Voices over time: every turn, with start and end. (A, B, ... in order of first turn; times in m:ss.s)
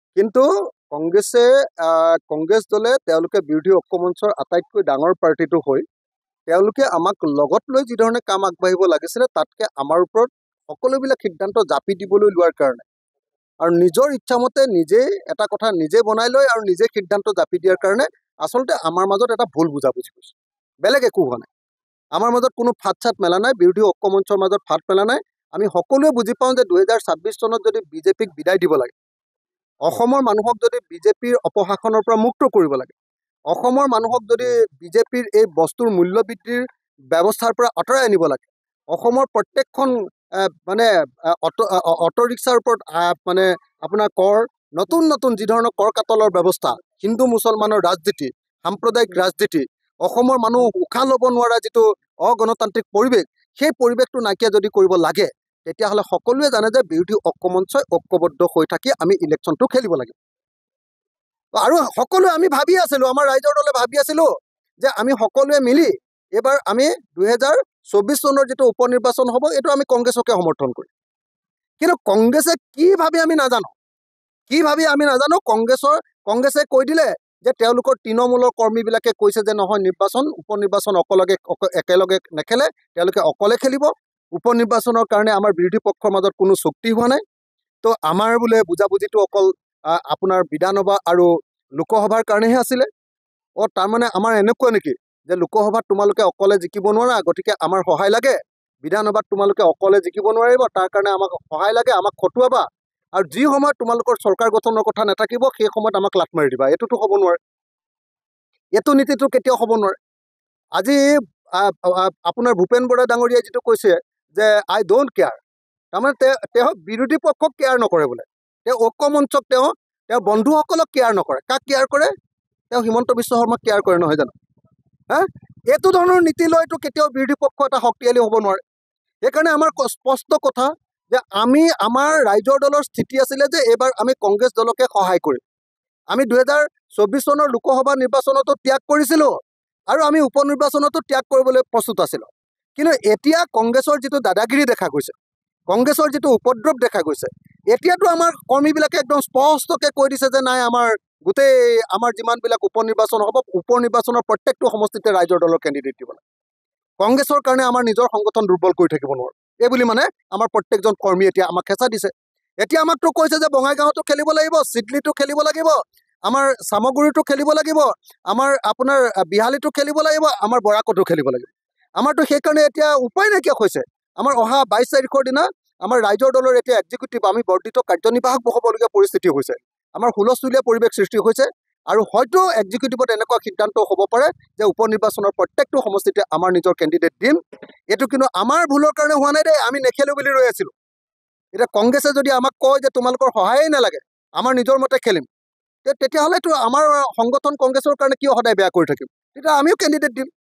0:00.2-0:05.8 A
0:06.5-0:12.8 A
0:13.6-0:21.5 A
0:22.1-0:28.9 A
0:29.8-0:32.9 A
0:33.5-0:40.9 A
0:41.4-1:00.2 A
1:01.5-1:04.3 A
1:04.8-1:10.9 A
1:11.8-1:13.7 A
1:14.5-1:27.2 A
1:27.8-1:32.9 A
1:33.6-1:47.4 A
1:48.8-1:50.0 A
1:50.8-1:55.4 A
1:55.9-2:02.1 A
2:02.7-2:04.3 A
2:05.1-2:08.6 A
2:09.2-2:15.4 A
2:16.1-2:19.3 A
2:19.9-2:25.1 A
2:25.7-2:36.2 A
2:37.0-3:07.4 A
3:07.9-3:10.7 A
3:11.5-3:15.2 A
3:15.8-3:20.3 A